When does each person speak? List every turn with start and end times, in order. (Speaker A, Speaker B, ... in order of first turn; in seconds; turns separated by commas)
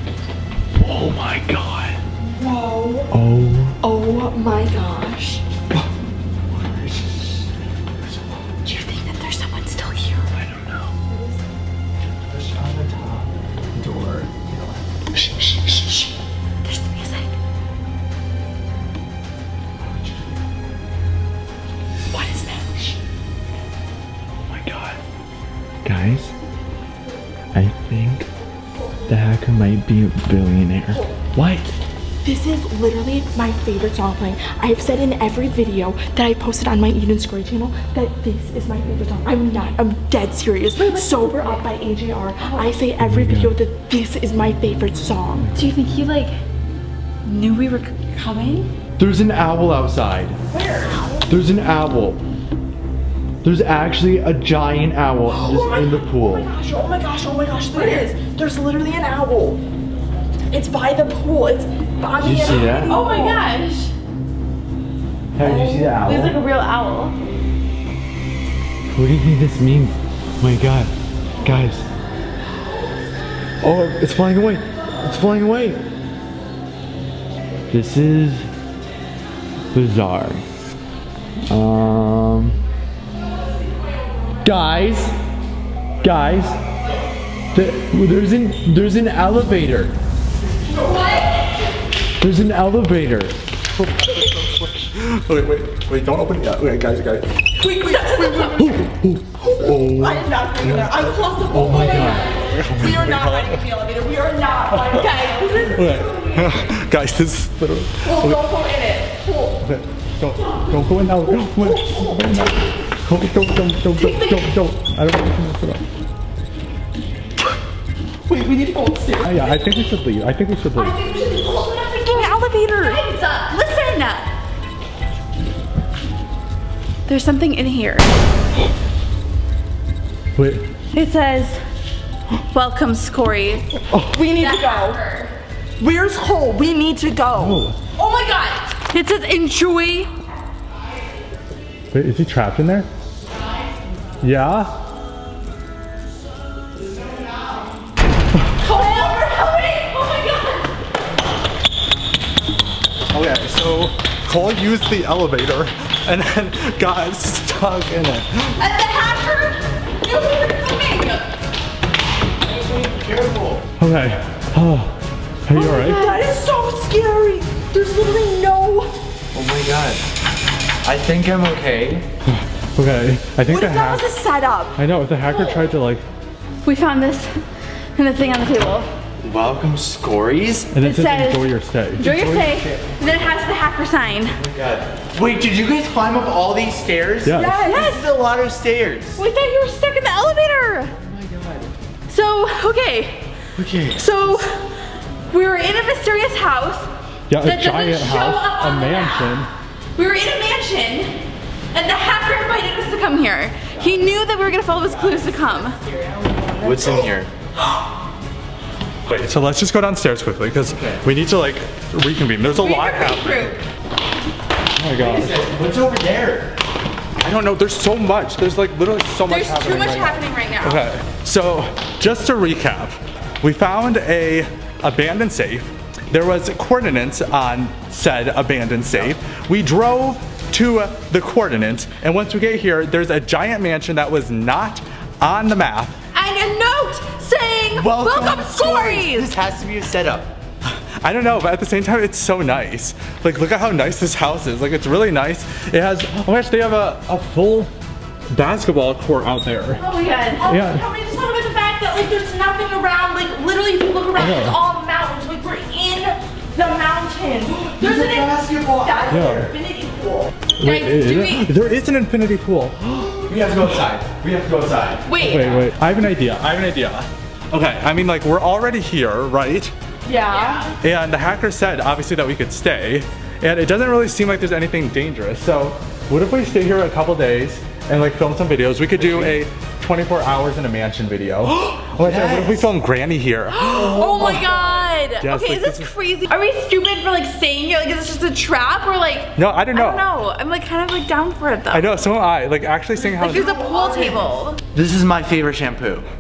Speaker A: 0.7-2.0, Speaker B: 2.3-3.1, Speaker A: 3.1-3.8, Speaker B: 3.8-5.4, Speaker C: 6.5-7.4, Speaker C: 7.9-8.8, Speaker D: 8.8-10.2, Speaker A: 10.3-10.9, Speaker C: 12.2-16.0, Speaker D: 16.6-17.3, Speaker C: 19.8-20.4, Speaker D: 22.1-22.7, Speaker A: 24.4-25.0, Speaker A: 25.8-26.3, Speaker A: 27.5-28.3, Speaker A: 29.1-31.7, Speaker B: 32.2-45.5, Speaker D: 40.7-41.6, Speaker D: 42.4-42.8, Speaker A: 43.0-43.5, Speaker D: 45.5-46.4, Speaker D: 47.2-48.7, Speaker A: 49.0-50.4, Speaker B: 50.5-51.3, Speaker A: 51.3-52.2, Speaker A: 53.4-56.5, Speaker B: 55.3-59.6, Speaker D: 57.8-58.1, Speaker B: 60.5-63.5, Speaker A: 62.2-63.0, Speaker D: 62.9-63.9, Speaker A: 65.4-66.4, Speaker B: 65.5-66.3, Speaker D: 65.5-67.2, Speaker A: 68.9-71.9, Speaker A: 73.6-75.8, Speaker A: 77.7-78.5, Speaker A: 79.7-80.4, Speaker A: 81.5-82.6, Speaker A: 84.4-85.2, Speaker A: 86.0-86.6, Speaker A: 87.5-89.9, Speaker A: 92.2-93.4, Speaker C: 93.8-97.5, Speaker B: 97.6-98.9, Speaker D: 97.6-98.6, Speaker C: 98.6-99.5, Speaker A: 98.8-100.1, Speaker B: 99.5-106.5, Speaker C: 100.6-101.0, Speaker A: 101.5-102.9, Speaker C: 102.3-103.6, Speaker D: 104.9-105.8, Speaker C: 105.7-108.4, Speaker B: 108.0-109.7, Speaker C: 109.6-115.8, Speaker B: 110.4-112.7, Speaker B: 114.0-114.4, Speaker B: 118.3-119.8, Speaker C: 119.2-121.0, Speaker B: 120.7-123.0, Speaker D: 122.0-124.3, Speaker D: 127.1-128.2, Speaker C: 130.4-130.7, Speaker D: 130.9-131.6, Speaker D: 132.5-133.8, Speaker B: 133.9-135.0, Speaker D: 134.3-135.3, Speaker B: 135.8-137.7, Speaker C: 137.3-137.8, Speaker D: 137.9-140.1, Speaker C: 141.9-142.9, Speaker C: 144.2-144.7, Speaker D: 148.6-150.6, Speaker B: 148.6-149.8, Speaker C: 153.1-158.6, Speaker D: 158.6-161.3, Speaker A: 162.5-163.7, Speaker C: 163.8-166.2, Speaker B: 165.5-168.9, Speaker A: 169.3-170.1, Speaker A: 170.8-172.1, Speaker C: 172.3-174.1, Speaker B: 173.5-174.8, Speaker C: 174.8-176.0, Speaker D: 175.3-175.6, Speaker D: 176.6-177.4, Speaker D: 177.9-178.9, Speaker A: 179.2-180.7, Speaker C: 180.7-182.1, Speaker D: 180.8-184.4, Speaker A: 182.0-183.3, Speaker A: 184.3-189.2, Speaker C: 187.2-187.6, Speaker D: 187.3-188.1, Speaker B: 187.4-188.0, Speaker D: 189.2-190.9, Speaker A: 190.9-191.7, Speaker D: 192.1-193.2, Speaker A: 193.6-194.4, Speaker D: 194.0-194.8, Speaker D: 195.3-196.9, Speaker C: 197.3-199.5, Speaker D: 197.4-201.2, Speaker D: 201.7-205.8, Speaker A: 203.8-204.0, Speaker B: 205.7-207.1, Speaker A: 206.6-207.3, Speaker C: 209.1-213.6, Speaker A: 210.7-211.0, Speaker D: 212.5-213.6, Speaker C: 214.8-215.5, Speaker A: 215.0-216.6, Speaker C: 217.2-235.9, Speaker D: 219.3-220.9, Speaker D: 236.1-239.3, Speaker A: 237.7-240.3, Speaker C: 240.7-247.7, Speaker C: 248.3-249.8, Speaker D: 249.8-250.5, Speaker B: 250.4-260.3, Speaker C: 250.4-250.8, Speaker C: 254.2-254.6, Speaker A: 257.5-259.4, Speaker C: 259.1-259.5, Speaker C: 260.6-263.2, Speaker D: 260.6-261.5, Speaker A: 263.2-265.1, Speaker D: 265.1-265.6, Speaker C: 265.2-269.7, Speaker B: 270.1-270.7, Speaker D: 270.1-270.7, Speaker C: 270.8-284.0, Speaker A: 279.0-279.4, Speaker A: 281.4-282.7, Speaker D: 283.5-291.9, Speaker A: 283.8-284.7, Speaker C: 285.2-285.9, Speaker C: 289.4-290.1, Speaker C: 291.7-293.6, Speaker D: 293.0-294.6, Speaker B: 293.3-294.2, Speaker A: 294.7-296.1